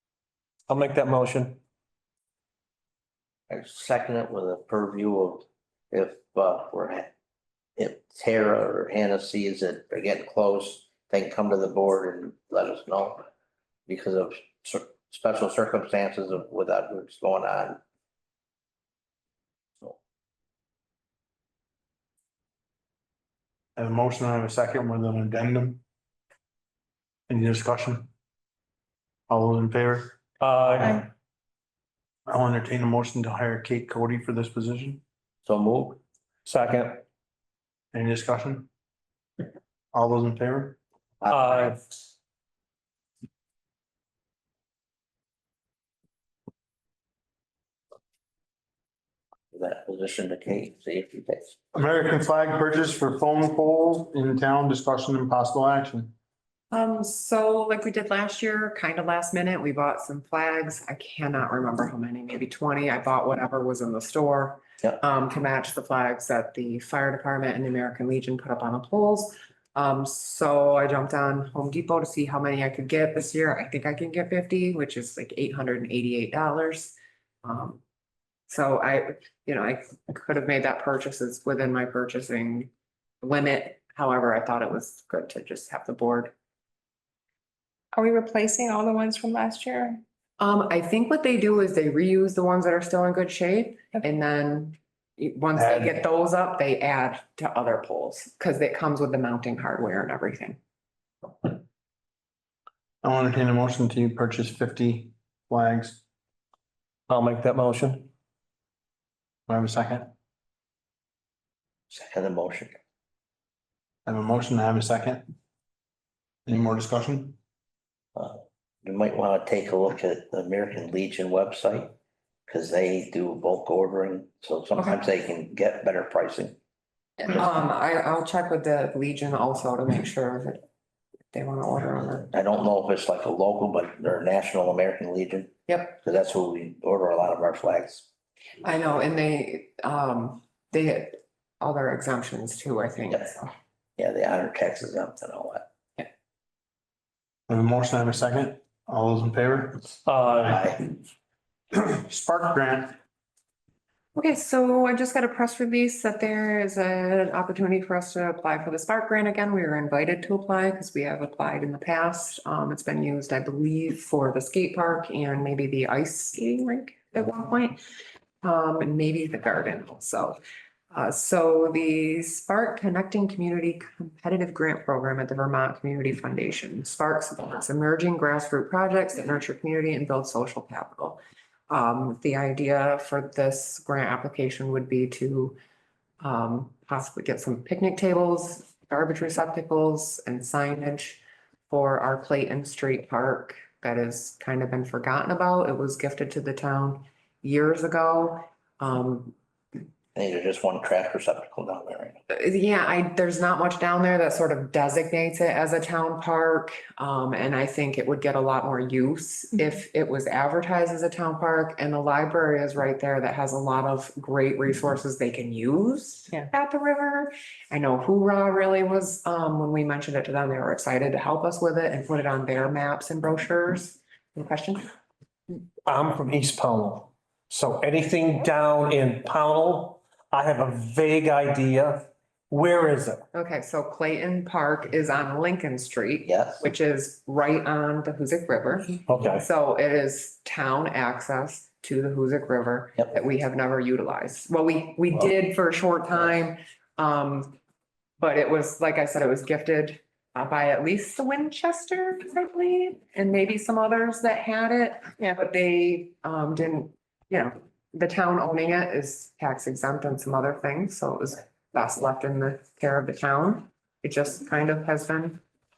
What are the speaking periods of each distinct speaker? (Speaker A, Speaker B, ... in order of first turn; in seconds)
Speaker A: 0.7-1.6, 30.4-31.1, 36.5-37.0, 41.3-41.8, 107.1-108.1, 150.1-150.6, 225.8-233.2, 239.1-239.4
Speaker B: 3.5-7.1, 7.8-13.3, 13.9-17.8, 35.4-36.0, 41.2-41.5, 49.5-51.5, 111.9-112.8, 118.1-121.9, 122.5-126.6, 132.3-138.1, 144.0-145.7, 150.5-150.8, 200.1-202.2, 236.2-236.7
Speaker C: 23.8-25.8, 27.3-28.1, 29.3-30.2, 32.3-35.0, 37.9-38.7, 39.9-40.8, 51.7-56.1, 95.5-95.9, 103.0-106.0, 109.5-110.1, 114.0-115.2, 116.5-117.3, 147.5-150.0, 151.7-152.9
Speaker D: 56.7-77.8, 78.5-82.7, 83.2-86.3, 90.4-100.6, 127.2-130.6, 131.3-132.3, 135.7-136.0, 138.6-143.5, 154.1-167.8, 168.4-170.4, 170.9-185.6, 186.2-199.3, 202.3-224.9, 233.3-247.6, 248.2-265.4
Speaker E: 87.9-90.0